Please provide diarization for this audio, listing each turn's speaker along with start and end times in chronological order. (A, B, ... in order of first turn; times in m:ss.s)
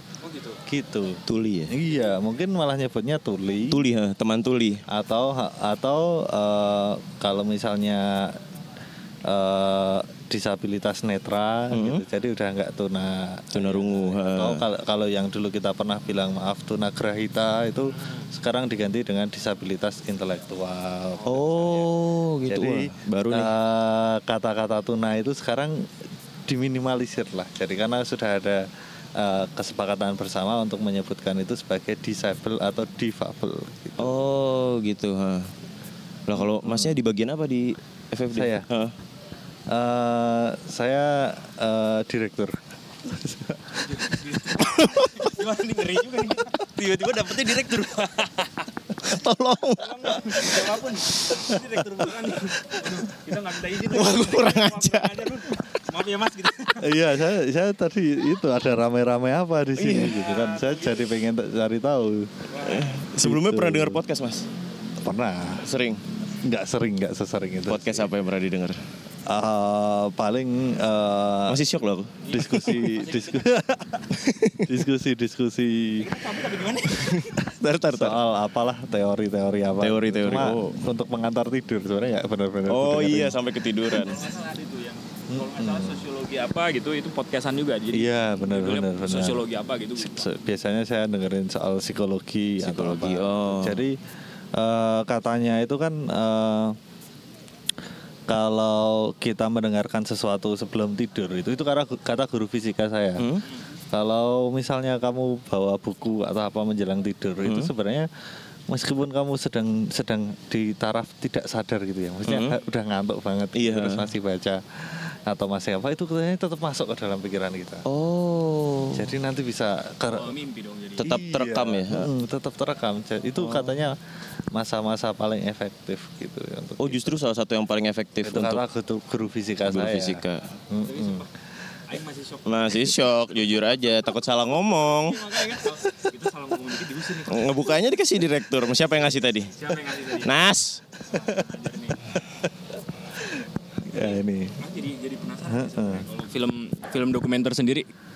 0:00.2-0:00.6 A
0:00.7-0:03.8 B
0:01.3-0:01.8 C
0:03.7-0:04.8 C
0:04.9-0:08.4 B
0:09.3-0:21.8 B
0:11.7-0:12.0 C
0:13.5-0:14.6 C
0:17.9-0:18.3 A
0:21.2-0:21.9 A
0:21.3-0:23.5 C
0:22.5-0:25.9 B
0:26.5-0:34.2 B
0:34.0-0:35.5 C
0:36.3-0:38.9 C
0:36.4-0:37.0 B
0:38.3-0:38.7 B
0:39.7-0:44.1 B
0:43.8-0:48.7 A
0:49.0-0:50.6 C
0:49.8-0:56.9 A
0:53.8-0:55.4 C
0:56.8-1:02.4 B
0:59.8-1:00.2 C
1:00.0-1:01.0 A
1:02.5-1:03.0 A
1:02.6-1:04.5 C
1:03.2-1:04.0 B
1:05.0-1:05.7 B
1:05.6-1:06.0 C
1:06.4-1:08.1 B
1:07.7-1:08.8 C
1:09.3-1:11.6 B
1:11.5-1:12.9 C
1:12.2-1:13.5 A
1:12.3-1:14.0 B
1:14.1-1:14.7 C
1:14.6-1:16.1 B
1:16.0-1:17.4 A
1:16.9-1:18.2 C
1:17.9-1:23.4 B
1:19.8-1:20.8 C
1:22.7-1:24.3 C
1:23.9-1:30.3 A
1:25.3-1:26.0 B
1:27.9-1:29.4 B
1:30.0-1:34.0 B
1:32.6-1:33.8 C
1:34.6-1:36.8 B
1:38.3-1:43.3 B
1:43.2-1:43.4 C
1:43.9-1:48.1 B
1:47.4-1:47.7 C
1:48.7-1:57.8 B
1:52.3-1:52.6 C
1:53.6-1:54.1 C
1:57.9-1:59.2 C
1:58.9-2:00.4 B
2:00.1-2:01.1 A
2:01.0-2:02.1 C
2:01.0-2:04.0 B
2:03.4-2:03.9 C
2:04.5-2:07.1 B
2:06.8-2:08.6 C
2:08.2-2:11.2 B
2:09.7-2:10.4 C
2:10.8-2:11.3 A
2:11.9-2:13.0 A
2:12.5-2:15.4 C
2:14.8-2:17.7 A
2:17.3-2:19.5 C
2:19.5-2:20.3 A
2:20.1-2:20.8 C
2:21.1-2:22.1 A
2:23.9-2:24.6 B
2:23.9-2:27.9 A
2:25.5-2:26.0 B